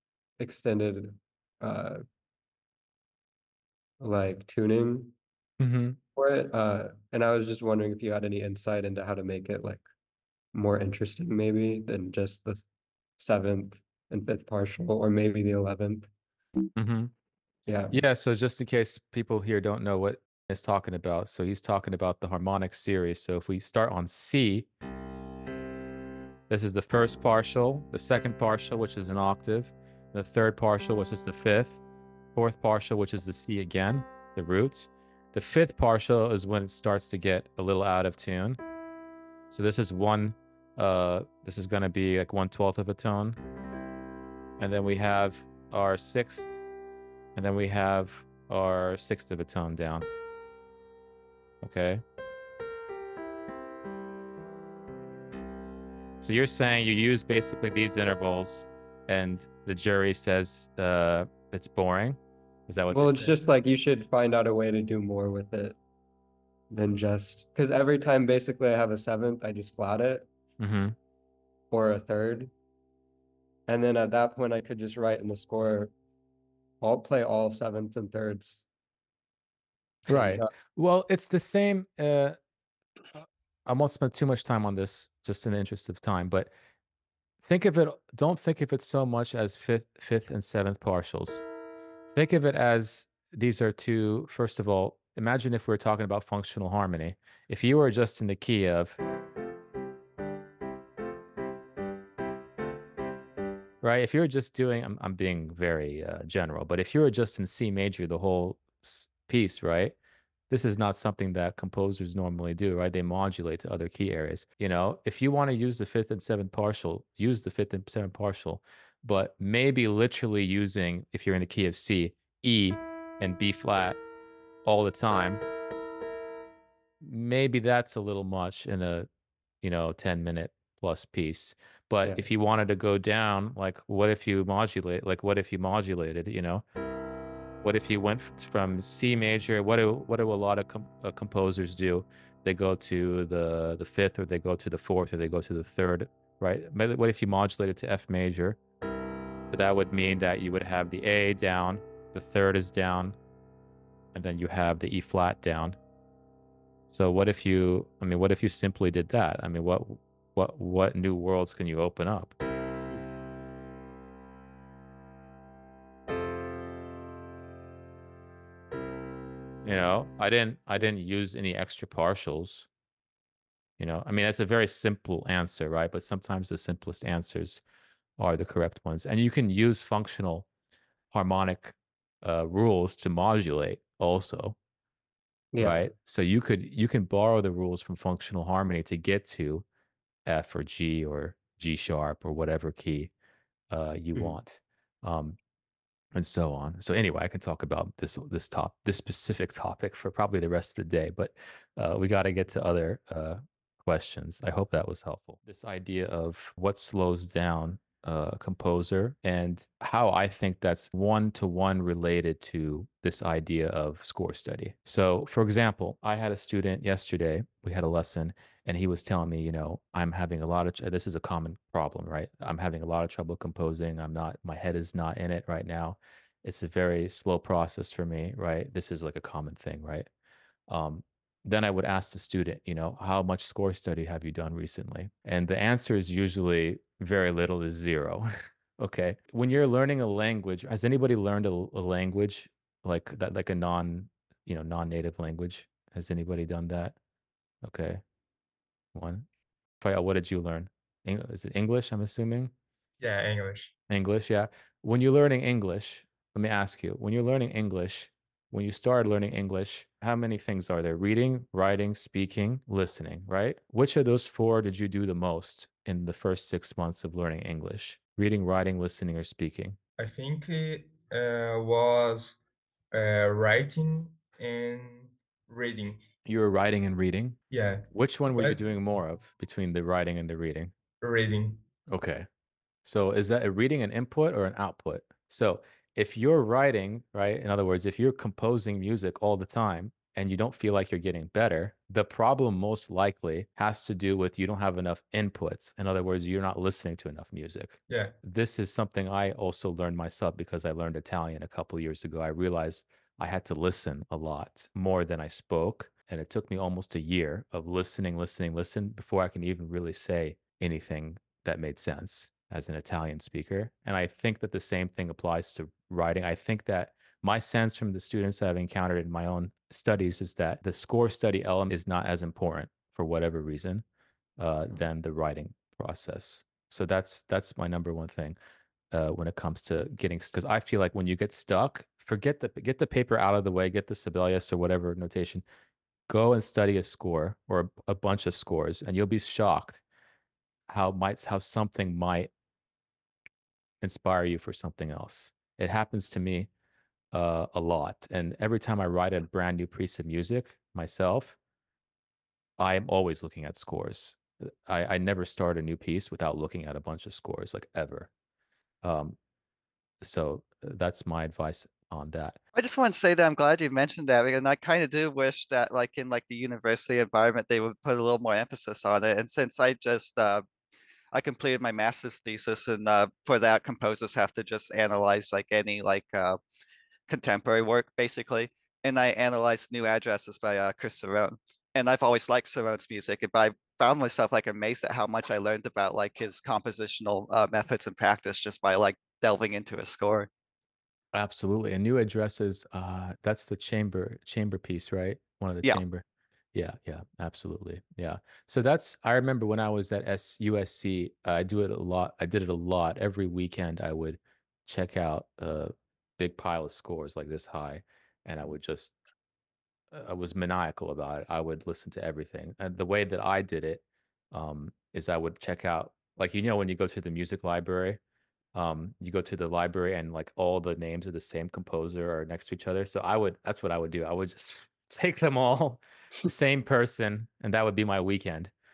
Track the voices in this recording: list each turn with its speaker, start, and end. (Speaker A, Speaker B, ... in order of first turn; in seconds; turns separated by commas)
Speaker A: 0.4-2.0, Speaker A: 4.0-5.2, Speaker B: 5.6-6.0, Speaker A: 6.2-9.9, Speaker A: 10.5-12.7, Speaker A: 13.2-16.1, Speaker B: 16.8-17.1, Speaker A: 17.7-18.0, Speaker B: 17.9-24.7, Speaker B: 26.5-31.8, Speaker B: 32.4-38.6, Speaker B: 39.5-43.4, Speaker B: 44.6-46.6, Speaker B: 47.4-50.1, Speaker B: 51.6-52.0, Speaker B: 56.2-63.3, Speaker A: 62.9-65.8, Speaker A: 66.7-70.3, Speaker B: 70.6-71.0, Speaker A: 71.7-72.5, Speaker A: 73.7-75.9, Speaker A: 76.8-78.6, Speaker A: 80.1-80.5, Speaker B: 80.1-82.4, Speaker B: 83.1-86.5, Speaker B: 87.4-91.4, Speaker B: 92.1-99.0, Speaker B: 103.8-110.0, Speaker B: 110.5-124.0, Speaker B: 124.7-125.4, Speaker B: 127.0-129.1, Speaker B: 129.6-136.7, Speaker B: 137.6-148.6, Speaker B: 149.5-153.2, Speaker B: 154.1-155.8, Speaker B: 156.9-162.3, Speaker B: 169.7-172.7, Speaker B: 173.8-177.6, Speaker B: 178.2-180.5, Speaker B: 181.1-184.6, Speaker A: 185.5-185.8, Speaker B: 185.6-189.7, Speaker B: 190.3-193.1, Speaker B: 193.7-195.4, Speaker B: 196.1-230.1, Speaker B: 230.7-247.0, Speaker B: 247.6-248.0, Speaker B: 248.9-249.3, Speaker B: 249.8-252.5, Speaker C: 253.0-253.7, Speaker B: 253.9-269.8, Speaker C: 270.0-272.4, Speaker C: 272.9-276.0, Speaker B: 276.3-277.4, Speaker C: 277.5-278.6, Speaker B: 277.9-280.7, Speaker C: 281.0-281.6, Speaker B: 281.9-282.3, Speaker B: 282.9-323.8, Speaker C: 297.9-298.2, Speaker B: 324.4-328.4, Speaker B: 328.9-335.4, Speaker B: 336.1-339.8, Speaker B: 340.7-342.3, Speaker B: 343.8-346.5, Speaker B: 347.1-351.4, Speaker B: 352.6-358.1, Speaker B: 358.8-359.2, Speaker B: 360.0-362.4, Speaker D: 362.6-370.4, Speaker D: 371.1-376.4, Speaker D: 377.1-390.3, Speaker B: 391.1-408.9, Speaker B: 409.9-418.0, Speaker B: 418.5-428.5